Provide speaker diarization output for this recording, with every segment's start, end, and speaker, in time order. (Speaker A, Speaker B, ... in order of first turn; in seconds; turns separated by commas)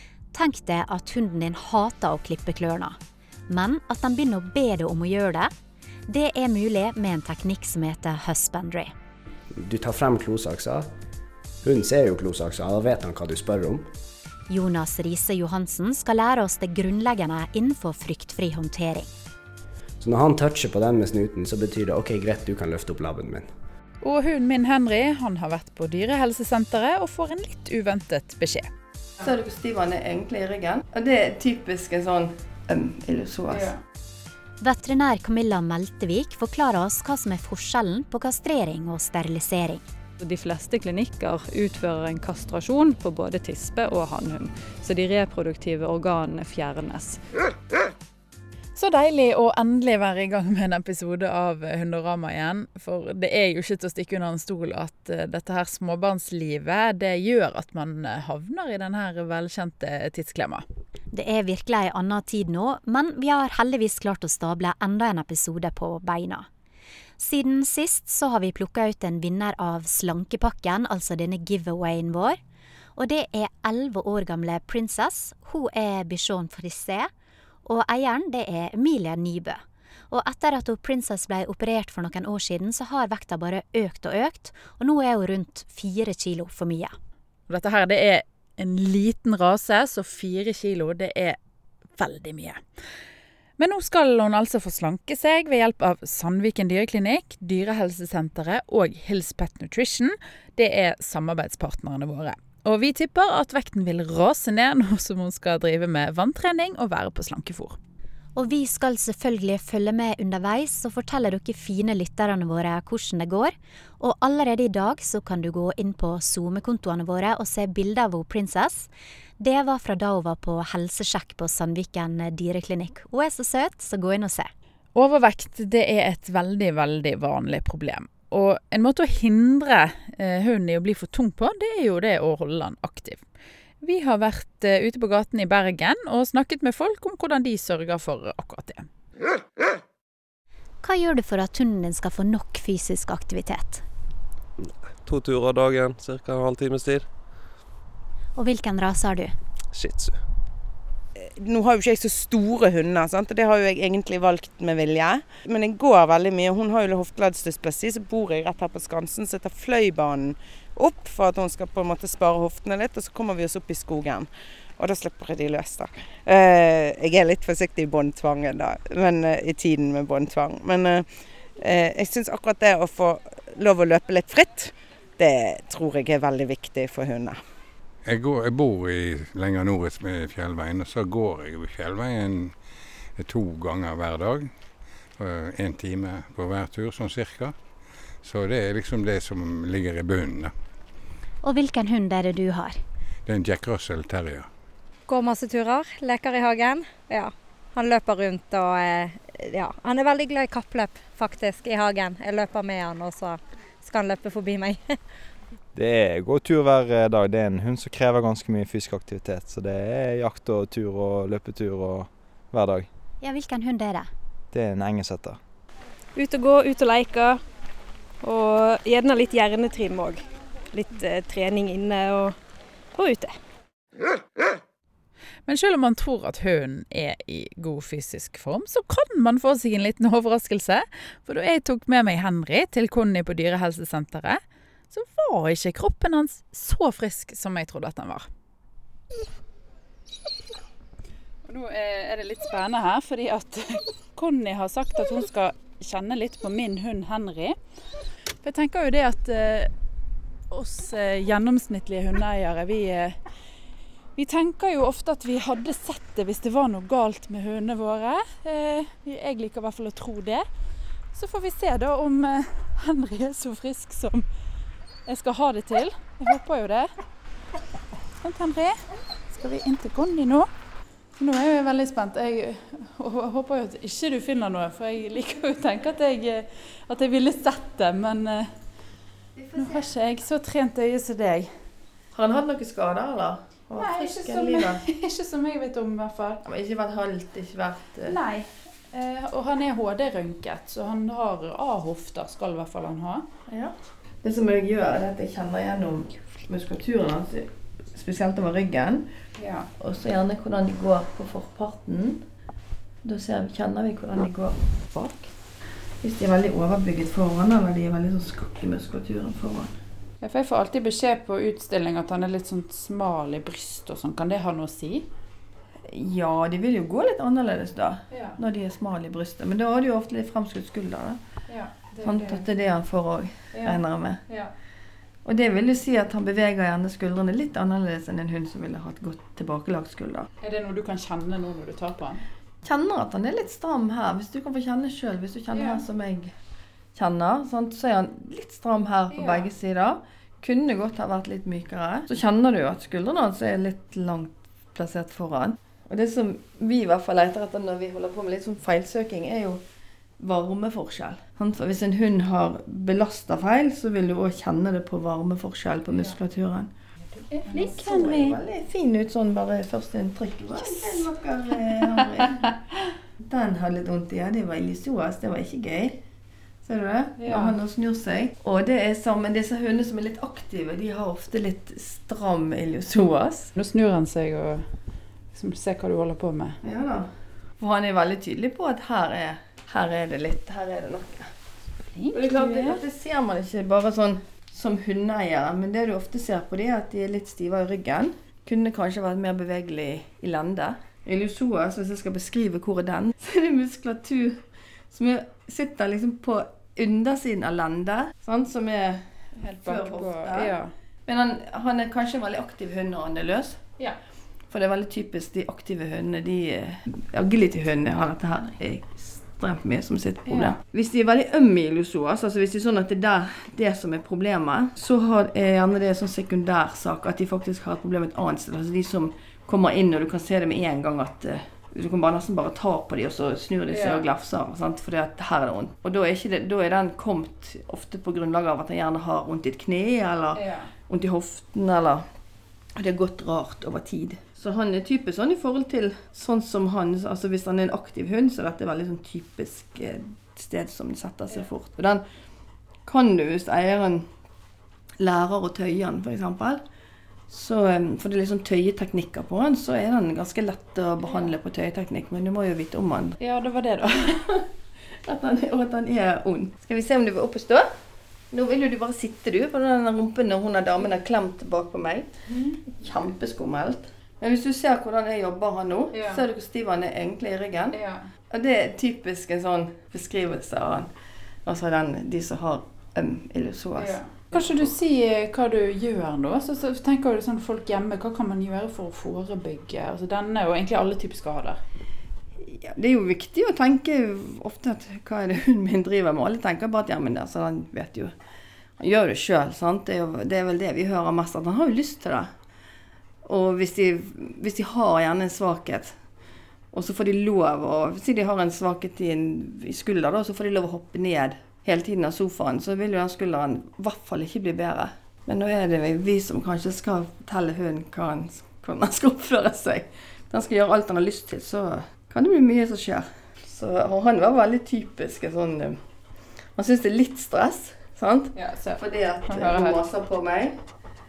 Speaker A: 0.3-3.0, Speaker A: 3.5-5.5, Speaker A: 6.1-8.9, Speaker B: 9.5-10.9, Speaker B: 11.6-13.9, Speaker A: 14.5-19.1, Speaker B: 20.0-23.5, Speaker C: 24.0-28.7, Speaker D: 29.2-33.7, Speaker C: 33.5-33.8, Speaker A: 34.6-39.9, Speaker E: 40.2-47.2, Speaker C: 48.8-60.6, Speaker A: 61.1-66.5, Speaker A: 67.2-72.4, Speaker A: 73.0-77.1, Speaker A: 77.7-87.0, Speaker C: 87.5-91.4, Speaker C: 92.0-92.6, Speaker C: 93.6-107.8, Speaker A: 108.4-124.5, Speaker C: 124.9-133.2, Speaker C: 133.8-138.9, Speaker A: 140.8-143.8, Speaker F: 144.6-147.1, Speaker A: 148.4-149.3, Speaker F: 149.7-150.2, Speaker G: 151.2-177.4, Speaker H: 178.1-182.6, Speaker H: 183.2-184.5, Speaker H: 185.2-187.6, Speaker H: 188.2-190.5, Speaker A: 191.4-192.8, Speaker H: 193.3-194.5, Speaker I: 195.1-205.0, Speaker J: 205.8-212.9, Speaker A: 213.2-214.1, Speaker J: 214.5-215.4, Speaker K: 216.2-217.4, Speaker K: 218.2-222.4, Speaker K: 222.9-223.4, Speaker C: 225.5-234.4, Speaker C: 234.9-238.3, Speaker C: 241.5-247.6, Speaker C: 248.4-249.7, Speaker C: 250.5-253.2, Speaker C: 254.2-260.5, Speaker C: 261.1-264.3, Speaker C: 265.1-266.9, Speaker C: 268.2-268.8, Speaker C: 269.3-270.5, Speaker C: 271.2-278.5, Speaker C: 279.6-281.5, Speaker D: 282.1-284.8, Speaker C: 283.8-286.4, Speaker D: 286.4-288.2, Speaker C: 288.1-293.3, Speaker D: 293.5-299.1, Speaker C: 299.4-299.7, Speaker D: 299.8-302.2, Speaker D: 303.0-305.3, Speaker D: 306.0-309.7, Speaker C: 310.2-315.1, Speaker D: 315.9-321.2, Speaker C: 318.1-318.4, Speaker C: 321.5-322.4, Speaker D: 322.0-324.2, Speaker C: 323.5-324.5, Speaker D: 325.2-330.3, Speaker C: 330.4-332.2, Speaker D: 332.6-336.3, Speaker C: 335.5-335.8, Speaker D: 336.9-349.6, Speaker C: 339.1-339.5, Speaker D: 350.2-356.7, Speaker C: 357.3-357.7, Speaker A: 357.5-358.3, Speaker D: 357.6-362.6, Speaker C: 360.6-361.0, Speaker D: 363.2-366.0, Speaker D: 366.6-373.5, Speaker C: 367.2-367.6, Speaker C: 373.6-374.7, Speaker C: 375.3-376.6, Speaker D: 376.6-381.3, Speaker C: 382.1-382.8, Speaker D: 382.1-403.6, Speaker C: 399.4-400.7, Speaker D: 404.5-432.1, Speaker C: 410.3-410.6, Speaker C: 423.7-424.1, Speaker C: 430.3-430.7, Speaker D: 432.8-442.0, Speaker D: 442.9-444.1, Speaker D: 445.0-446.6, Speaker D: 447.3-453.2, Speaker C: 451.1-451.3, Speaker C: 453.2-454.2, Speaker D: 454.1-454.4, Speaker D: 455.1-457.7, Speaker D: 458.3-462.1, Speaker C: 462.3-462.6, Speaker D: 462.7-467.8, Speaker C: 465.9-466.2, Speaker C: 467.7-468.1, Speaker D: 468.3-470.9, Speaker D: 471.4-474.0, Speaker C: 473.8-481.6, Speaker D: 482.6-488.1, Speaker D: 488.8-492.3, Speaker D: 493.2-496.0, Speaker D: 496.7-515.8, Speaker D: 516.6-520.6, Speaker C: 518.3-519.8